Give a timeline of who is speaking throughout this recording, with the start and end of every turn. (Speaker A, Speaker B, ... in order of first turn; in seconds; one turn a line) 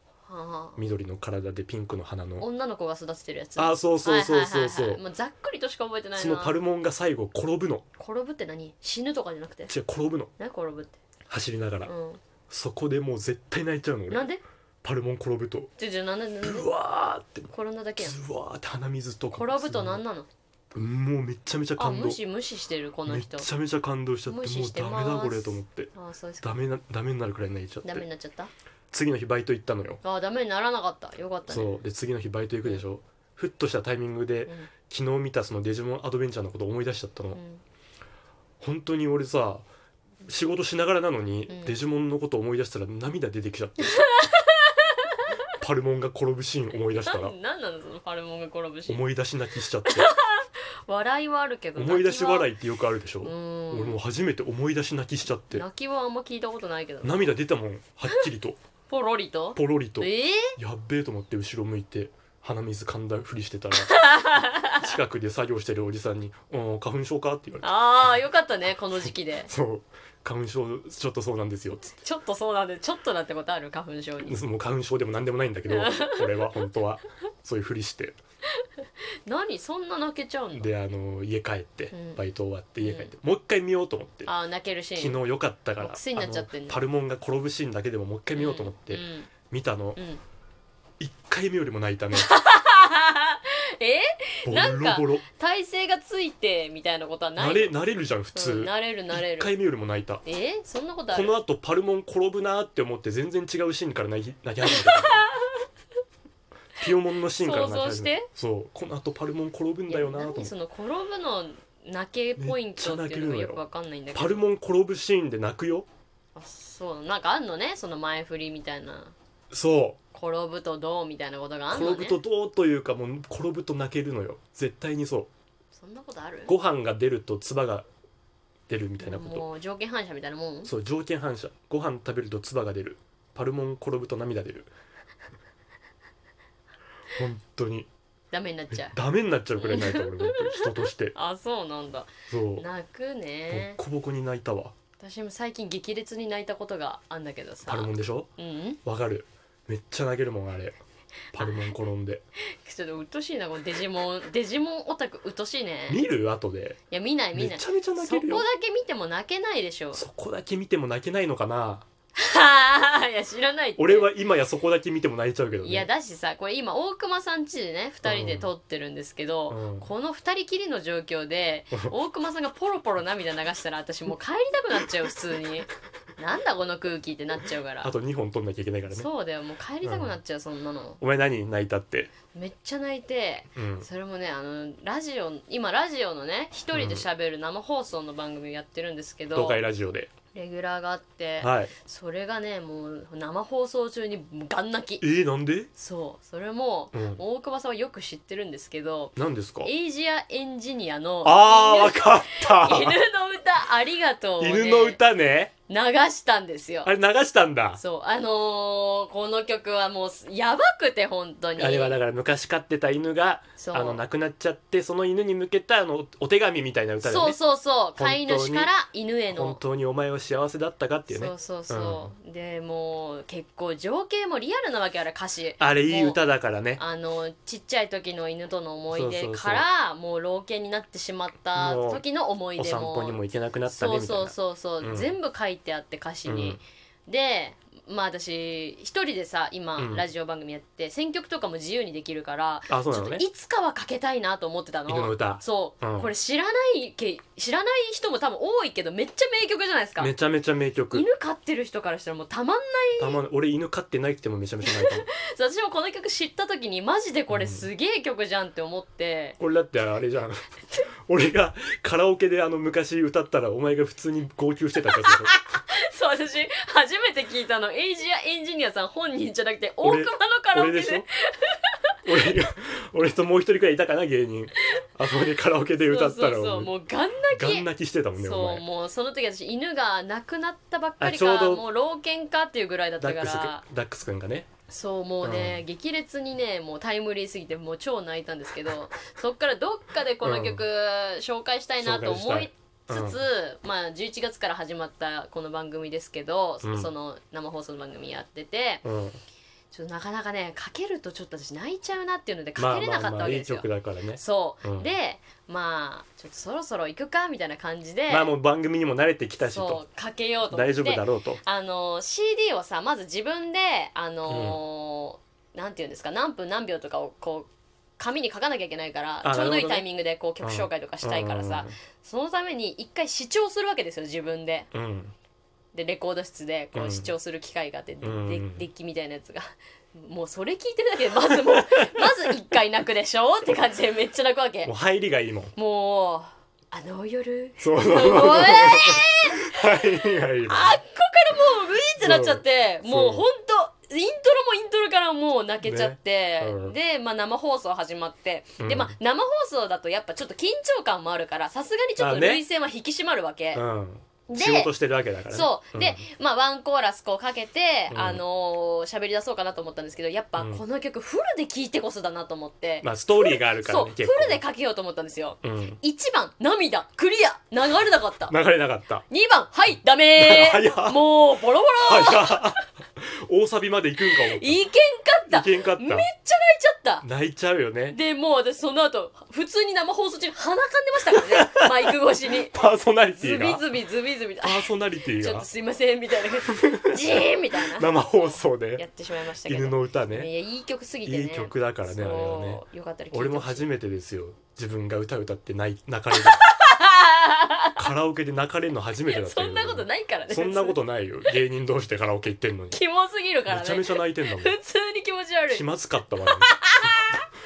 Speaker A: 0.3-0.8
Speaker B: 0.8-2.5
Speaker A: 2.4-6.6
Speaker B: 3.6-5.0
Speaker B: 6.2-7.9
Speaker A: 8.0-9.7
Speaker B: 9.7-10.3
Speaker A: 10.4-11.0
Speaker B: 11.3-11.9
Speaker A: 11.8-12.2
Speaker B: 12.5-14.2
Speaker A: 14.1-14.4
Speaker B: 14.8-15.7
Speaker A: 15.8-16.7
Speaker B: 16.4-20.0
Speaker A: 17.5-18.2
Speaker A: 19.3-20.3
Speaker B: 20.7-22.2
Speaker A: 21.8-23.5
Speaker B: 23.1-25.9
Speaker A: 24.3-26.6
Speaker B: 26.4-28.1
Speaker A: 27.8-28.5
Speaker B: 28.9-30.0
Speaker A: 30.0-31.8
Speaker B: 31.5-37.4
Speaker A: 37.3-37.6
Speaker B: 38.6-39.7
Speaker B: 40.3-44.0
Speaker A: 41.5-41.8
Speaker A: 43.8-45.2
Speaker B: 45.6-47.4
Speaker A: 46.9-49.0
Speaker B: 48.9-50.1
Speaker A: 49.9-52.5
Speaker B: 51.8-55.6
Speaker A: 53.2-54.0
Speaker A: 55.5-57.4
Speaker B: 57.0-58.6
Speaker A: 58.9-60.6
Speaker B: 59.6-64.0
Speaker A: 63.8-64.9
Speaker B: 64.7-67.8
Speaker A: 67.6-69.5
Speaker B: 69.5-71.9
Speaker A: 71.8-74.4
Speaker B: 74.2-78.2
Speaker A: 75.7-76.6
Speaker A: 78.6-80.7
Speaker B: 80.5-84.3
Speaker A: 81.9-82.2
Speaker A: 82.8-83.1
Speaker A: 84.2-85.2
Speaker B: 85.0-90.0
Speaker A: 85.8-86.8
Speaker A: 88.3-89.3
Speaker A: 90.0-90.2
Speaker B: 91.0-92.3
Speaker A: 92.1-97.8
Speaker B: 94.5-95.2
Speaker B: 97.4-100.2
Speaker A: 98.3-99.5
Speaker A: 100.2-101.4
Speaker B: 101.1-105.3
Speaker A: 104.7-105.6
Speaker B: 106.8-110.5
Speaker A: 107.4-108.3
Speaker A: 109.9-114.4
Speaker B: 112.4-113.6
Speaker B: 114.2-115.9
Speaker A: 116.3-119.2
Speaker B: 119.5-120.0
Speaker A: 120.1-122.2
Speaker B: 121.7-125.3
Speaker A: 125.8-126.5
Speaker B: 126.5-127.9
Speaker B: 128.7-129.5
Speaker A: 129.0-130.7
Speaker B: 130.7-134.7
Speaker B: 137.2-137.9
Speaker A: 138.3-138.9
Speaker B: 138.7-141.2
Speaker A: 139.6-143.8
Speaker B: 142.3-142.7
Speaker B: 143.5-144.7
Speaker A: 145.0-148.8
Speaker B: 147.7-148.3
Speaker B: 148.8-150.8
Speaker B: 151.3-152.2
Speaker A: 151.4-151.8
Speaker A: 152.6-156.0
Speaker B: 155.9-156.8
Speaker A: 156.9-160.0
Speaker B: 157.3-158.5
Speaker B: 159.9-161.9
Speaker A: 162.2-164.1
Speaker B: 163.8-165.9
Speaker A: 165.6-177.9
Speaker B: 168.0-168.5
Speaker B: 169.5-169.9
Speaker B: 177.8-179.1
Speaker A: 178.9-181.0
Speaker B: 179.8-180.2
Speaker B: 181.0-182.1
Speaker A: 182.3-189.6
Speaker B: 183.6-183.9
Speaker B: 186.7-187.1
Speaker B: 189.3-190.1
Speaker A: 190.3-195.0
Speaker B: 191.4-191.7
Speaker B: 195.0-195.7
Speaker A: 195.8-205.0
Speaker B: 196.9-197.2
Speaker B: 199.2-199.7
Speaker B: 201.2-203.0
Speaker B: 204.4-205.5
Speaker A: 205.7-206.9
Speaker B: 206.8-207.8
Speaker A: 207.8-211.9
Speaker B: 211.6-217.4
Speaker A: 213.6-214.0
Speaker A: 217.0-219.6
Speaker B: 218.0-218.7
Speaker B: 219.3-222.1
Speaker A: 221.1-226.2
Speaker B: 225.6-226.8
Speaker A: 226.8-250.1
Speaker B: 228.9-229.7
Speaker B: 231.6-232.0
Speaker B: 232.6-235.1
Speaker B: 236.3-236.6
Speaker B: 239.8-240.1
Speaker B: 242.7-243.2
Speaker B: 244.9-246.1
Speaker B: 250.0-251.1
Speaker A: 250.9-253.2
Speaker B: 253.0-255.1
Speaker A: 254.6-259.4
Speaker B: 257.3-257.7
Speaker B: 259.4-260.4
Speaker B: 261.1-265.4
Speaker A: 264.9-271.9
Speaker B: 269.8-271.1
Speaker B: 272.1-276.7
Speaker A: 275.8-283.6
Speaker B: 277.3-278.6
Speaker B: 281.0-281.6
Speaker B: 283.0-284.5
Speaker A: 284.7-298.8
Speaker B: 285.2-285.6
Speaker B: 290.2-290.6
Speaker B: 291.8-293.2
Speaker B: 296.6-296.9
Speaker B: 298.8-299.2
Speaker A: 299.7-308.3
Speaker B: 302.6-304.9
Speaker B: 308.1-309.8
Speaker A: 309.4-324.7
Speaker B: 310.5-311.4
Speaker B: 314.3-314.6
Speaker B: 319.2-319.9
Speaker B: 320.4-321.8
Speaker B: 324.7-325.1
Speaker A: 325.7-334.7
Speaker B: 326.7-327.1
Speaker B: 328.0-328.7
Speaker B: 331.2-332.4
Speaker B: 334.6-335.5
Speaker A: 335.6-339.8
Speaker B: 337.6-340.8
Speaker A: 340.4-353.6
Speaker B: 342.0-343.3
Speaker B: 345.6-346.8
Speaker B: 348.6-348.9
Speaker B: 352.0-352.4
Speaker B: 353.5-356.0
Speaker A: 354.3-354.7
Speaker A: 355.3-368.4
Speaker B: 357.9-358.2
Speaker B: 360.4-360.6
Speaker B: 362.8-364.4
Speaker B: 365.4-365.8
Speaker B: 368.3-369.1
Speaker A: 369.1-372.6
Speaker B: 370.2-371.1
Speaker B: 371.8-374.6
Speaker A: 374.3-377.1
Speaker B: 375.3-376.1
Speaker B: 377.0-378.0
Speaker A: 377.9-382.6
Speaker B: 381.1-381.9
Speaker B: 382.5-383.6
Speaker A: 383.2-393.7
Speaker B: 384.4-385.5
Speaker B: 386.5-388.9
Speaker B: 389.4-390.3
Speaker B: 391.0-396.5
Speaker A: 396.1-397.9
Speaker B: 397.8-402.8
Speaker A: 399.1-400.8
Speaker A: 402.7-405.6
Speaker B: 403.5-404.6
Speaker B: 405.5-407.0
Speaker A: 406.4-407.2